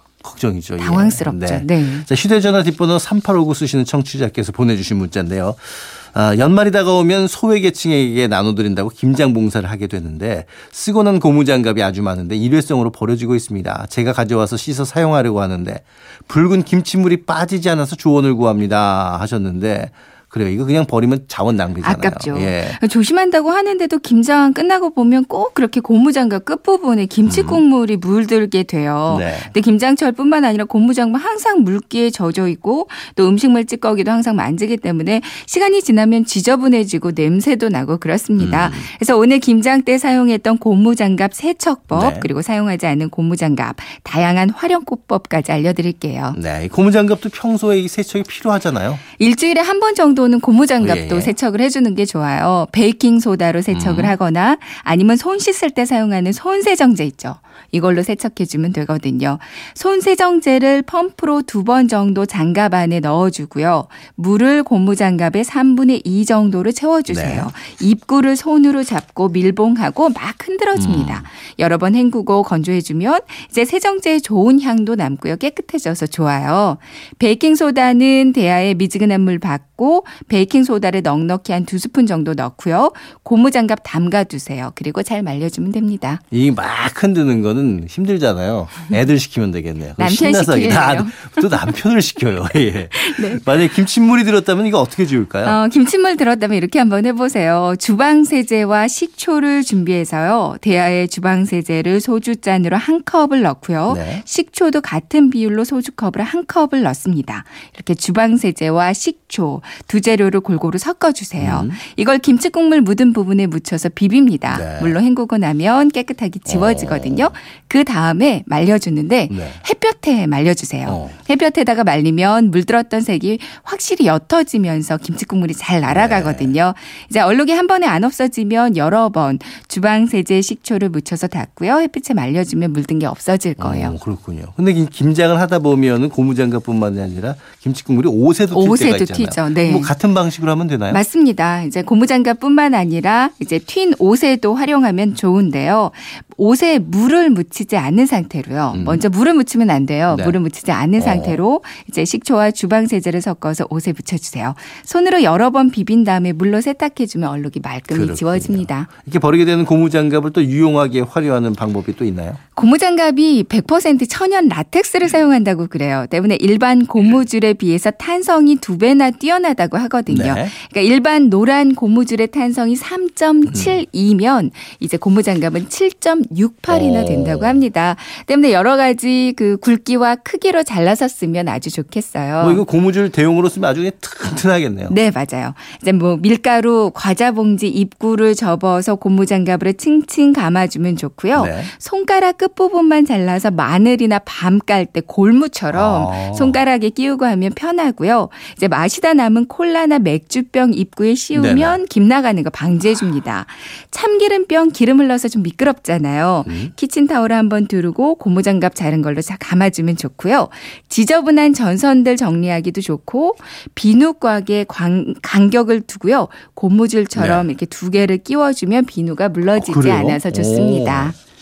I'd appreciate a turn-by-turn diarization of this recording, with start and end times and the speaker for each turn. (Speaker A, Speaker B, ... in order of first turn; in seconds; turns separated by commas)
Speaker A: 0.2-22.8, Speaker B: 0.8-2.1, Speaker B: 21.8-46.4, Speaker A: 27.2-27.6, Speaker A: 29.1-29.5, Speaker A: 38.4-38.9, Speaker A: 41.9-42.3, Speaker A: 46.3-49.0, Speaker B: 49.2-86.2, Speaker A: 50.8-51.3, Speaker A: 53.7-54.1, Speaker A: 67.1-67.5, Speaker A: 70.7-71.2, Speaker A: 86.3-95.6, Speaker B: 90.0-91.7, Speaker B: 92.9-93.5, Speaker B: 95.4-133.9, Speaker A: 103.9-104.2, Speaker A: 111.4-111.8, Speaker A: 114.5-115.0, Speaker A: 116.5-117.3, Speaker A: 119.3-119.6, Speaker A: 120.9-121.1, Speaker A: 125.8-126.5, Speaker A: 133.6-141.0, Speaker B: 138.5-139.9, Speaker B: 140.9-158.9, Speaker A: 148.7-149.0, Speaker A: 150.1-150.4, Speaker A: 151.0-151.4, Speaker A: 157.9-162.4, Speaker B: 162.5-182.6, Speaker A: 170.1-170.5, Speaker A: 173.5-173.8, Speaker A: 176.7-177.6, Speaker A: 182.4-185.0, Speaker B: 184.9-221.2, Speaker A: 191.3-191.7, Speaker A: 195.7-196.6, Speaker A: 201.3-201.8, Speaker A: 206.4-206.7, Speaker A: 217.1-217.5, Speaker A: 219.6-221.1